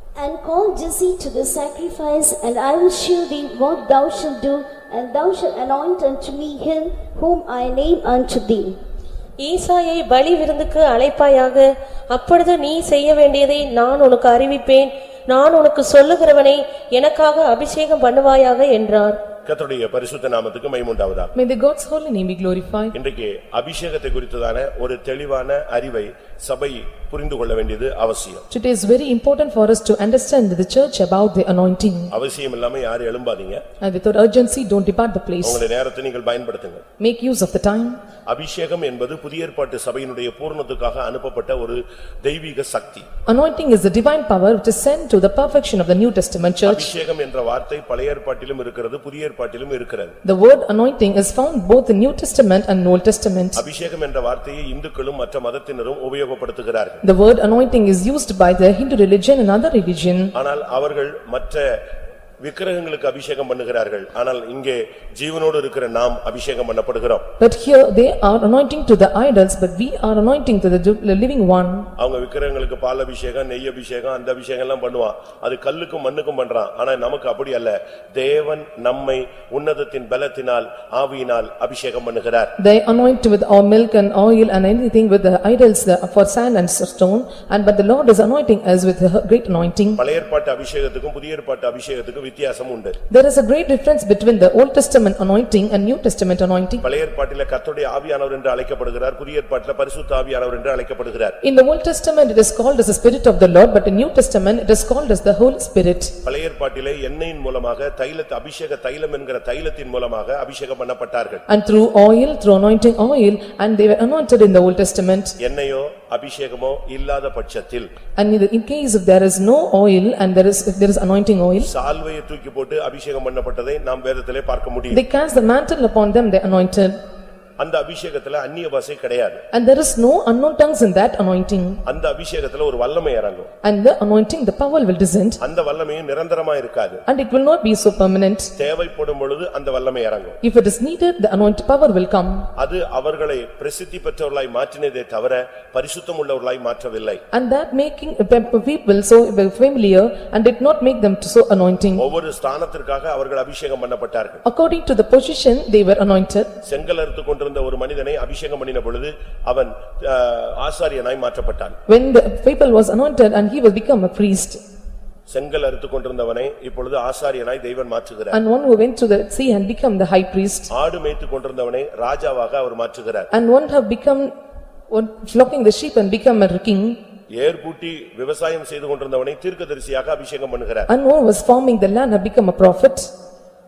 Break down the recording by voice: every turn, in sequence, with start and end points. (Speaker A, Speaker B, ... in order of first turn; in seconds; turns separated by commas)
Speaker A: 0.2-8.8, Speaker B: 9.4-19.2, Speaker C: 19.5-21.3, Speaker D: 21.4-22.9, Speaker C: 22.9-28.4, Speaker D: 28.5-32.1, Speaker C: 32.1-33.6, Speaker D: 33.8-35.6, Speaker C: 35.4-36.8, Speaker D: 37.0-38.0, Speaker C: 38.3-43.1, Speaker D: 43.3-46.9, Speaker C: 46.7-50.1, Speaker D: 50.2-53.6, Speaker C: 53.6-57.0, Speaker D: 57.0-60.3, Speaker C: 60.4-61.8, Speaker C: 62.4-67.3, Speaker D: 67.4-71.9, Speaker C: 72.0-82.5, Speaker D: 82.6-90.0, Speaker C: 90.0-93.0, Speaker D: 93.1-96.8, Speaker C: 96.8-101.4, Speaker D: 101.4-106.1, Speaker C: 106.2-111.4, Speaker D: 111.5-115.4, Speaker C: 115.4-117.9, Speaker D: 118.2-121.7, Speaker C: 121.6-125.0, Speaker D: 124.9-127.0, Speaker C: 127.6-129.4, Speaker D: 129.5-131.8, Speaker C: 131.9-133.5, Speaker D: 133.6-135.4, Speaker C: 135.4-137.0, Speaker D: 137.1-138.5, Speaker C: 138.6-140.4, Speaker D: 140.4-142.5, Speaker C: 142.6-147.2, Speaker D: 147.3-152.0, Speaker C: 152.0-154.4, Speaker D: 154.4-156.5, Speaker C: 156.6-161.8, Speaker D: 161.9-164.6, Speaker C: 165.3-168.4, Speaker D: 168.3-170.7, Speaker C: 170.7-173.3, Speaker D: 173.3-174.3, Speaker D: 174.9-177.0, Speaker C: 177.4-180.9, Speaker D: 180.9-183.1